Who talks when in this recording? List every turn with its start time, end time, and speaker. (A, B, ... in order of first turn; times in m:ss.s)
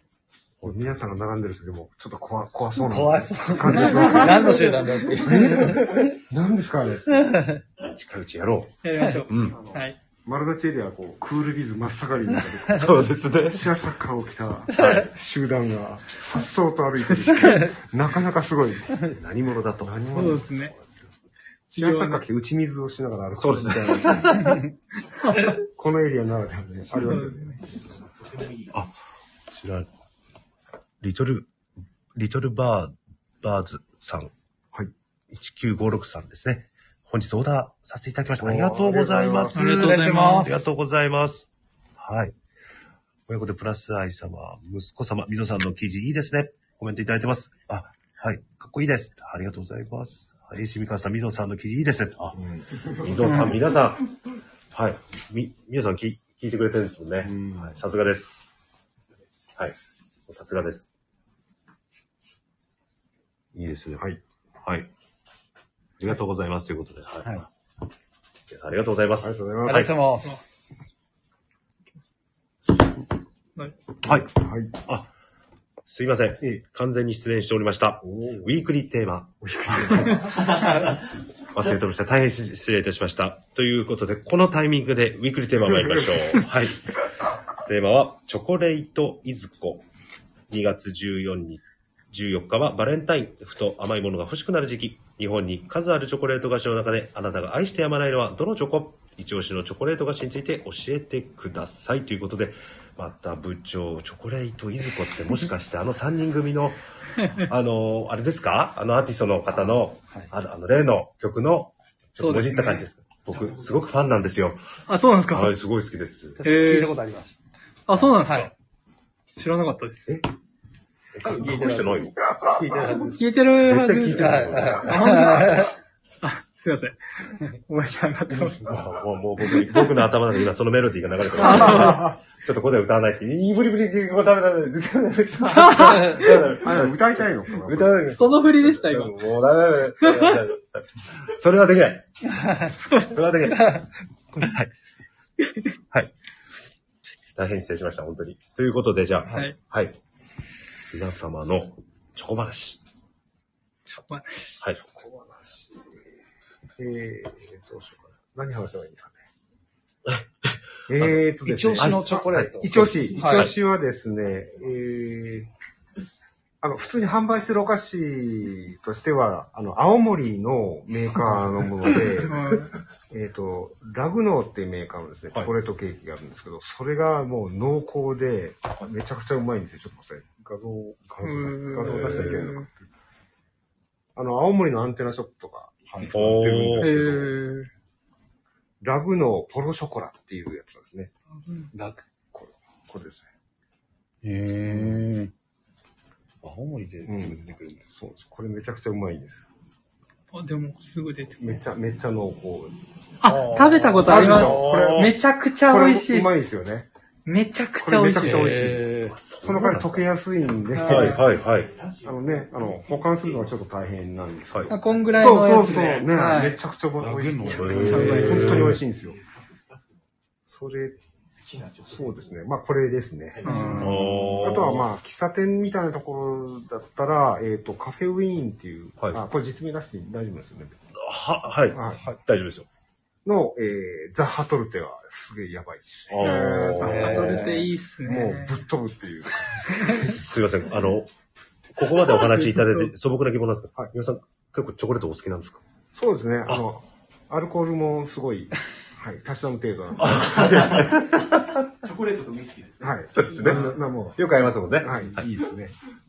0:00.6-0:01.2 A
0:00.6-0:07.4 B
0:02.8-0:06.1 C
0:07.3-0:07.6 C
0:07.8-0:09.6 A
0:08.8-0:10.0 D
0:09.0-0:09.9 C
0:10.2-0:19.0 B
0:12.7-0:13.7 A
0:14.8-0:15.1 A
0:19.0-0:20.8 A
0:19.8-0:20.4 B
0:20.1-0:20.7 D
0:21.7-0:24.6 B
0:21.7-0:22.2 D
0:23.3-0:24.7 A
0:25.2-0:25.6 D
0:25.5-0:27.7 B
0:27.0-0:27.6 D
0:27.5-0:28.9 E
0:29.5-0:29.9 A
0:31.0-0:31.5 A
0:32.1-0:34.3 A
0:35.3-0:42.3 A
0:38.4-0:40.1 B
0:39.5-0:40.7 D
0:40.1-0:40.5 C
0:43.3-0:54.1 A
0:52.3-0:53.7 B
0:54.7-0:58.5 A
0:57.2-0:57.8 B
0:59.6-1:00.9 A
1:03.5-1:04.0 A
1:04.6-1:04.9 A
1:06.0-1:07.5 A
1:08.5-1:10.0 A
1:09.2-1:09.9 B
1:09.6-1:10.5 C
1:14.0-1:15.1 A
1:14.2-1:14.7 B
1:15.8-1:20.8 A
1:18.0-1:18.5 B
1:19.4-1:20.4 B
1:21.5-1:27.0 A
1:25.7-1:26.1 B
1:27.6-1:29.8 A
1:30.5-1:46.8 A
1:47.2-1:47.5 D
1:47.4-1:54.7 A
1:49.5-1:50.3 C
1:52.2-1:52.9 D
1:53.3-1:53.9 E
1:54.9-1:55.5 D
1:55.3-1:56.4 A
1:56.4-1:58.5 C
1:56.4-1:57.0 D
1:57.9-1:58.5 D
1:59.4-2:00.2 D
2:01.1-2:02.4 A
2:01.2-2:03.4 C
2:03.2-2:08.8 D
2:03.5-2:05.4 A
2:04.1-2:05.7 C
2:08.5-2:24.7 A
2:11.3-2:12.1 D
2:15.5-2:16.2 D
2:16.5-2:18.1 B
2:18.1-2:19.2 D
2:20.0-2:20.4 D
2:27.3-2:30.0 A
2:29.3-2:29.6 D
2:30.9-2:32.8 A
2:33.9-2:34.6 D
2:34.8-2:35.9 B
2:36.8-2:39.2 B
2:40.0-2:41.2 A
2:40.9-2:45.5 B
2:41.4-2:43.5 C
2:41.7-2:43.5 A
2:46.6-3:02.9 B
2:52.2-2:52.7 D
3:01.2-3:02.6 D
3:01.8-3:02.4 A
3:04.1-3:07.4 B
3:05.9-3:06.2 C
3:06.1-3:07.0 A
3:06.8-3:07.7 D
3:08.8-3:11.1 B
3:11.4-3:11.7 D
3:11.7-3:12.1 C
3:12.3-3:13.3 B
3:14.2-3:15.3 C
3:14.7-3:15.0 B
3:16.4-3:17.8 C
3:17.0-3:19.4 B
3:20.3-3:21.6 D
3:21.4-3:22.8 B
3:23.2-3:26.4 D
3:23.3-3:25.2 A
3:24.0-3:26.9 B
3:27.2-3:28.8 D
3:27.8-3:31.3 B
3:28.2-3:29.2 C
3:29.0-3:30.1 A
3:30.7-3:33.6 E
3:30.8-3:31.2 D
3:30.8-3:31.7 A
3:32.0-3:39.2 B
3:34.7-3:36.6 D
3:34.7-3:36.1 E
3:37.0-3:38.8 C
3:37.5-3:38.8 A
3:37.7-3:38.7 D
3:38.7-3:40.1 E
3:40.5-3:41.0 B
3:40.9-3:42.5 E
3:41.9-3:50.8 B
3:43.3-3:44.4 E
3:43.4-3:44.1 D
3:43.5-3:44.2 C
3:43.8-3:44.8 A
3:51.0-3:52.7 A
3:51.7-3:52.0 B
3:53.2-4:00.2 B
3:56.1-3:57.4 A
3:56.2-3:58.6 D
3:56.8-3:57.7 C
3:59.8-4:01.1 A
4:01.7-4:05.6 A
4:02.2-4:02.9 D
4:05.9-4:10.9 B
4:10.0-4:11.3 A
4:11.8-4:13.5 E
4:12.8-4:14.2 B
4:13.1-4:15.3 A
4:13.4-4:13.7 D
4:14.8-4:15.8 B